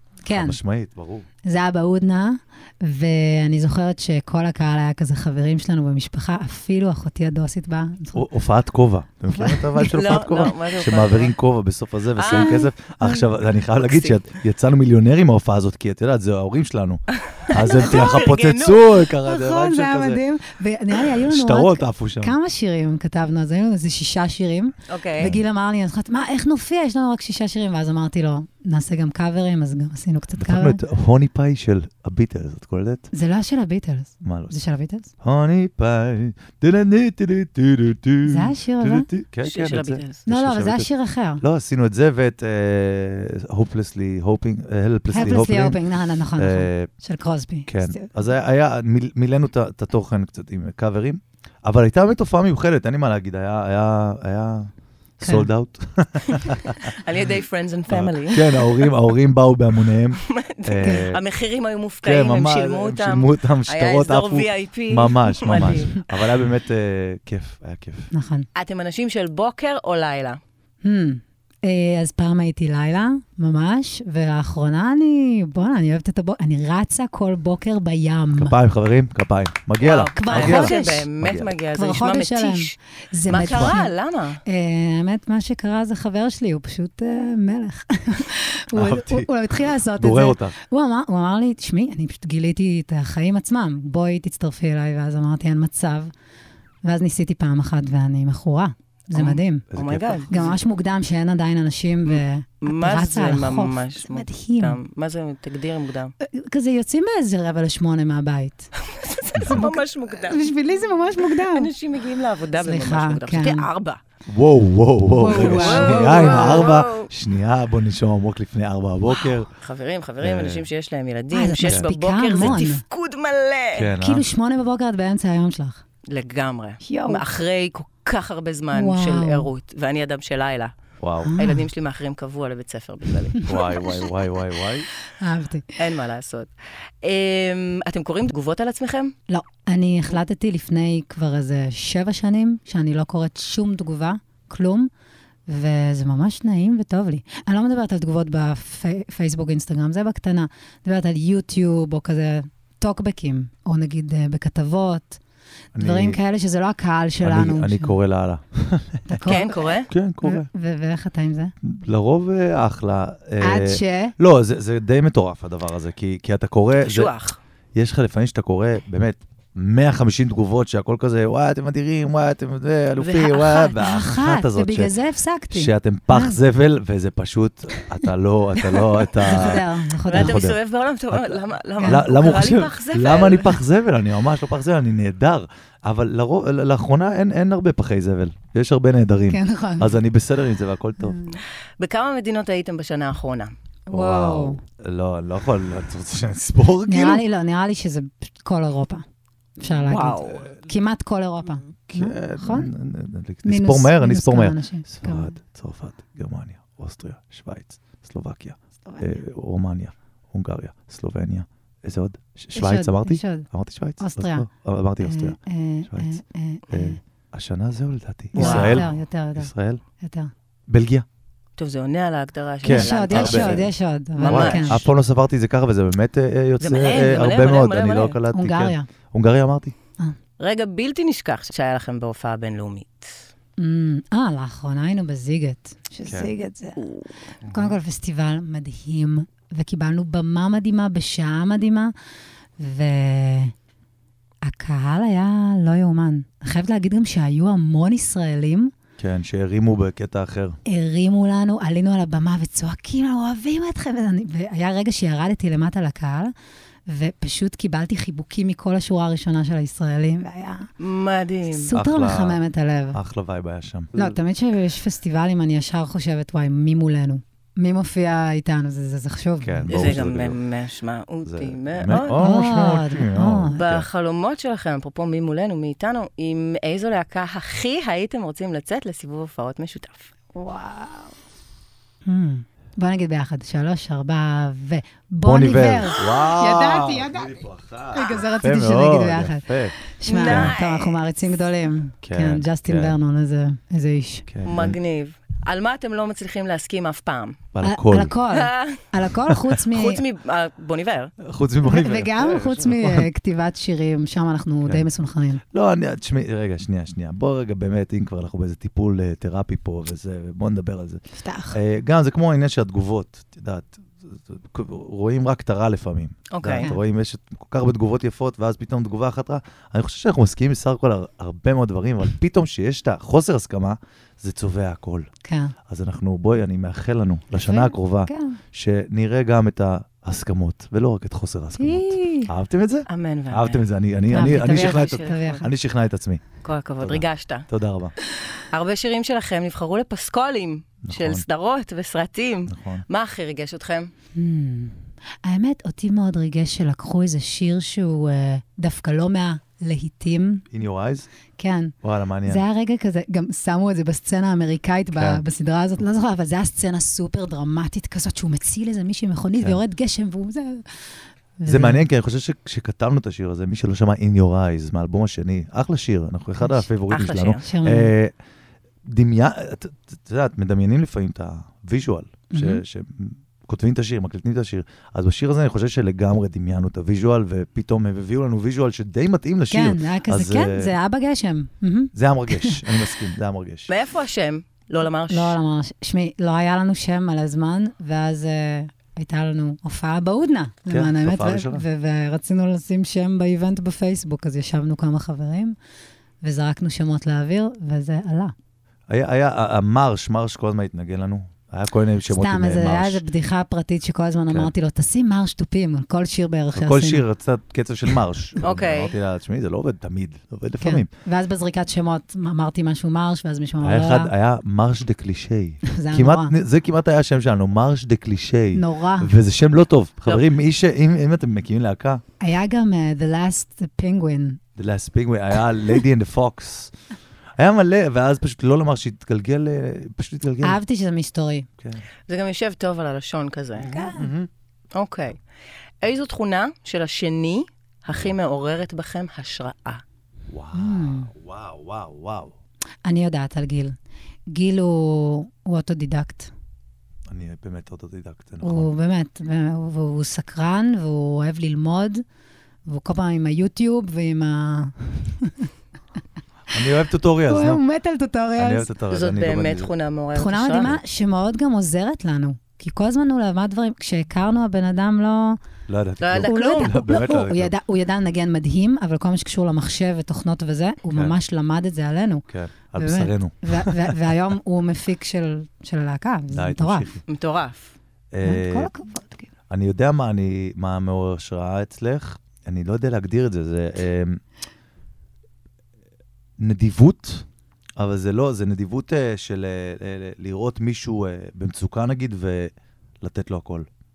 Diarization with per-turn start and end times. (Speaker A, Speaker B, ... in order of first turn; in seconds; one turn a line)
Speaker A: 0.2-0.6
Speaker B: 0.3-1.3
Speaker A: 1.4-8.3
Speaker B: 8.1-20.2
Speaker A: 9.3-9.8
Speaker C: 9.8-11.3
Speaker C: 12.2-12.7
Speaker C: 13.8-14.2
Speaker C: 17.3-19.1
Speaker A: 17.8-18.2
Speaker A: 19.2-30.8
Speaker B: 21.2-22.4
Speaker C: 24.9-25.3
Speaker B: 30.4-33.1
Speaker A: 33.1-35.1
Speaker B: 34.2-34.6
Speaker B: 35.2-45.8
Speaker A: 38.2-39.1
Speaker C: 39.4-40.2
Speaker A: 40.3-41.4
Speaker A: 45.1-48.1
Speaker B: 46.4-46.9
Speaker B: 47.7-56.9
Speaker A: 55.2-55.5
Speaker C: 56.9-58.9
Speaker B: 57.9-61.2
Speaker C: 60.2-66.0
Speaker A: 60.8-61.1
Speaker B: 62.0-68.1
Speaker A: 68.1-68.5
Speaker C: 68.5-70.4
Speaker A: 70.8-78.6
Speaker B: 78.4-81.5
Speaker C: 79.8-82.7
Speaker A: 80.2-81.1
Speaker A: 81.7-83.9
Speaker B: 83.3-83.8
Speaker C: 83.3-84.4
Speaker A: 84.5-96.1
Speaker B: 88.7-90.6
Speaker A: 96.8-99.7
Speaker C: 99.1-100.5
Speaker B: 99.7-100.5
Speaker A: 100.3-104.8
Speaker C: 102.1-106.1
Speaker A: 106.2-108.7
Speaker C: 108.9-110.5
Speaker B: 109.4-109.7
Speaker A: 109.5-111.7
Speaker C: 111.2-114.0
Speaker A: 112.5-113.7
Speaker B: 114.3-119.5
Speaker A: 115.2-116.7
Speaker C: 115.2-117.1
Speaker C: 119.5-123.9
Speaker B: 120.2-120.7
Speaker A: 121.3-122.8
Speaker B: 121.6-122.6
Speaker B: 123.7-124.2
Speaker A: 124.0-125.8
Speaker C: 126.1-130.7
Speaker A: 126.8-127.2
Speaker A: 128.7-129.5
Speaker B: 131.0-131.3
Speaker A: 131.3-131.7
Speaker C: 131.3-133.5
Speaker A: 133.4-133.7
Speaker B: 133.4-134.9
Speaker A: 135.2-135.7
Speaker C: 135.8-136.5
Speaker C: 137.0-139.1
Speaker A: 139.3-144.9
Speaker A: 145.5-155.2
Speaker B: 155.7-156.2
Speaker A: 155.8-157.9
Speaker B: 157.2-159.3
Speaker A: 159.1-161.5
Speaker C: 159.2-159.9
Speaker B: 159.9-160.5
Speaker B: 161.6-167.1
Speaker A: 163.4-164.2
Speaker C: 166.8-167.4
Speaker B: 167.8-175.0
Speaker C: 173.0-173.8
Speaker A: 173.8-176.4
Speaker B: 175.5-180.6
Speaker C: 178.6-179.5
Speaker A: 179.2-180.4
Speaker C: 180.1-183.6
Speaker B: 181.1-191.2
Speaker A: 181.8-182.4
Speaker A: 189.3-190.0
Speaker A: 191.0-191.3
Speaker C: 191.3-193.5
Speaker A: 193.9-194.6
Speaker B: 193.9-197.2
Speaker A: 196.9-199.0
Speaker A: 199.6-202.7
Speaker C: 199.9-200.5
Speaker B: 201.9-219.8
Speaker A: 203.4-205.3
Speaker A: 208.9-209.2
Speaker A: 212.6-213.5
Speaker A: 214.0-214.5
Speaker A: 215.0-217.0
Speaker A: 218.3-220.3
Speaker C: 218.4-218.9
Speaker B: 220.7-221.1
Speaker C: 221.6-224.9
Speaker B: 222.6-229.8
Speaker A: 222.7-224.9
Speaker C: 226.6-228.2
Speaker A: 228.3-228.9
Speaker C: 230.4-233.2
Speaker A: 233.6-236.9
Speaker B: 236.1-236.3
Speaker C: 236.8-237.0
Speaker B: 237.4-237.8
Speaker A: 237.4-241.9
Speaker A: 242.6-243.5
Speaker A: 244.4-248.7
Speaker B: 249.0-250.6
Speaker A: 250.7-256.3
Speaker A: 256.9-260.7
Speaker C: 260.8-261.8
Speaker A: 261.5-263.0
Speaker B: 261.7-262.4
Speaker B: 262.9-264.0
Speaker A: 263.9-269.9
Speaker B: 269.4-270.4
Speaker C: 269.7-272.2
Speaker B: 271.2-273.9
Speaker A: 272.1-273.6
Speaker C: 273.5-280.1
Speaker A: 280.3-281.1
Speaker A: 282.1-294.3
Speaker B: 285.2-290.5
Speaker C: 290.1-291.1
Speaker B: 292.0-293.0
Speaker B: 294.3-294.8
Speaker C: 294.4-297.4
Speaker B: 297.5-298.2
Speaker A: 297.6-300.0
Speaker C: 298.3-298.8
Speaker B: 299.2-299.5
Speaker C: 299.6-301.1
Speaker B: 301.2-303.1
Speaker A: 301.6-305.4
Speaker B: 305.5-325.1
Speaker A: 311.2-311.6
Speaker C: 316.3-316.7
Speaker A: 325.2-325.6
Speaker B: 325.7-336.3
Speaker A: 327.4-328.4
Speaker A: 331.6-332.3
Speaker C: 332.9-335.5
Speaker A: 334.1-335.5
Speaker C: 336.4-337.5
Speaker B: 336.8-337.9
Speaker C: 338.5-343.9
Speaker B: 340.8-341.2
Speaker B: 342.5-342.9
Speaker A: 344.1-350.4
Speaker B: 350.5-351.1
Speaker A: 351.4-360.8
Speaker B: 351.8-352.4
Speaker B: 354.9-355.2
Speaker A: 361.4-361.9
Speaker B: 361.5-368.1
Speaker A: 366.4-366.7
Speaker C: 366.9-367.5
Speaker A: 367.4-367.9
Speaker B: 368.9-380.7
Speaker A: 372.3-372.6
Speaker A: 379.5-382.8
Speaker B: 381.9-383.7
Speaker C: 383.7-385.4
Speaker A: 385.1-395.6
Speaker B: 390.7-391.6
Speaker A: 396.2-398.3
Speaker B: 398.9-403.0
Speaker A: 402.1-407.1
Speaker B: 406.5-410.9
Speaker C: 408.4-409.0
Speaker A: 410.6-414.1
Speaker B: 413.6-422.0
Speaker A: 415.7-416.4
Speaker A: 418.5-419.1
Speaker A: 422.2-424.4
Speaker B: 424.6-426.7
Speaker B: 427.4-430.6
Speaker A: 430.4-431.5
Speaker B: 431.6-431.9
Speaker C: 432.1-433.8
Speaker B: 433.6-434.3
Speaker A: 433.6-434.1
Speaker C: 434.7-435.2
Speaker C: 435.8-439.8
Speaker B: 440.3-442.3
Speaker A: 440.5-441.1
Speaker A: 442.8-443.8
Speaker A: 444.3-446.3
Speaker B: 447.1-448.7
Speaker A: 448.4-452.0
Speaker A: 452.7-455.5
Speaker B: 456.5-457.6
Speaker A: 457.3-458.7
Speaker B: 458.4-459.7
Speaker C: 458.9-460.8
Speaker A: 460.1-465.4
Speaker B: 465.7-467.5
Speaker C: 466.0-466.8
Speaker A: 466.2-476.9
Speaker B: 472.3-474.0
Speaker B: 476.3-477.0
Speaker C: 477.1-477.7
Speaker B: 478.1-478.7
Speaker A: 478.2-479.3
Speaker B: 479.5-484.2
Speaker B: 486.4-487.3
Speaker B: 487.8-493.7